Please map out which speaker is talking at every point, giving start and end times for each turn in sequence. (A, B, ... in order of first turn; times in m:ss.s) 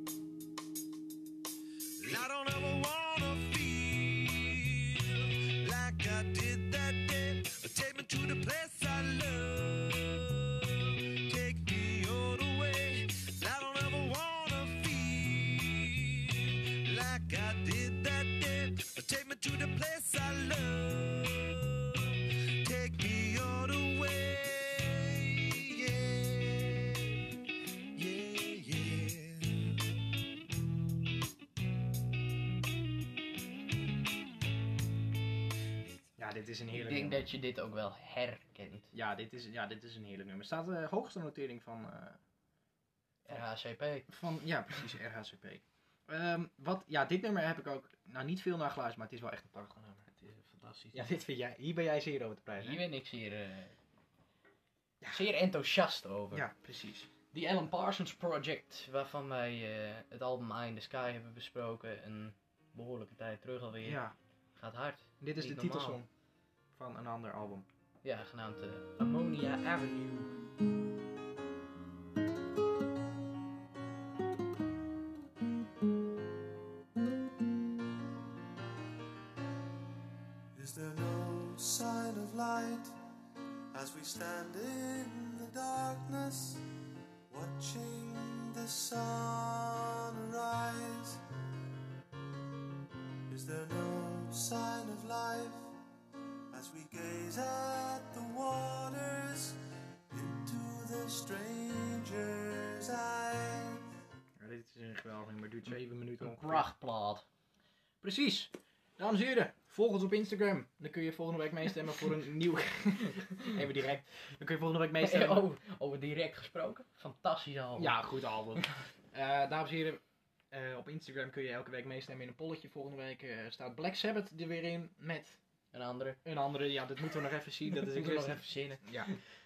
0:02.0-0:27.2 A
0:27.9-0:29.7 A
0:36.2-0:37.2 B
0:36.7-0:38.9 C
0:38.9-0:42.2 B
0:43.2-0:44.1 C
0:44.1-0:50.1 B
0:50.1-0:51.1 C
0:50.9-0:52.8 B
0:52.6-0:53.7 C
0:55.1-0:56.5 C
0:56.3-0:57.1 B
0:57.3-1:04.0 C
1:03.8-1:04.1 B
1:04.6-1:06.0 C
1:05.2-1:06.1 B
1:06.7-1:07.7 B
1:08.0-1:10.3 C
1:20.5-1:23.0 A
1:23.7-1:26.6 A
1:27.3-1:31.2 A
1:33.3-1:35.7 A
1:36.5-1:43.9 A
1:44.4-1:46.7 B
1:46.2-1:47.2 C
1:48.0-1:55.4 B
1:55.0-1:58.0 C
1:57.8-2:05.4 B
2:05.7-2:06.2 C
2:06.2-2:09.2 B
2:07.7-2:09.2 C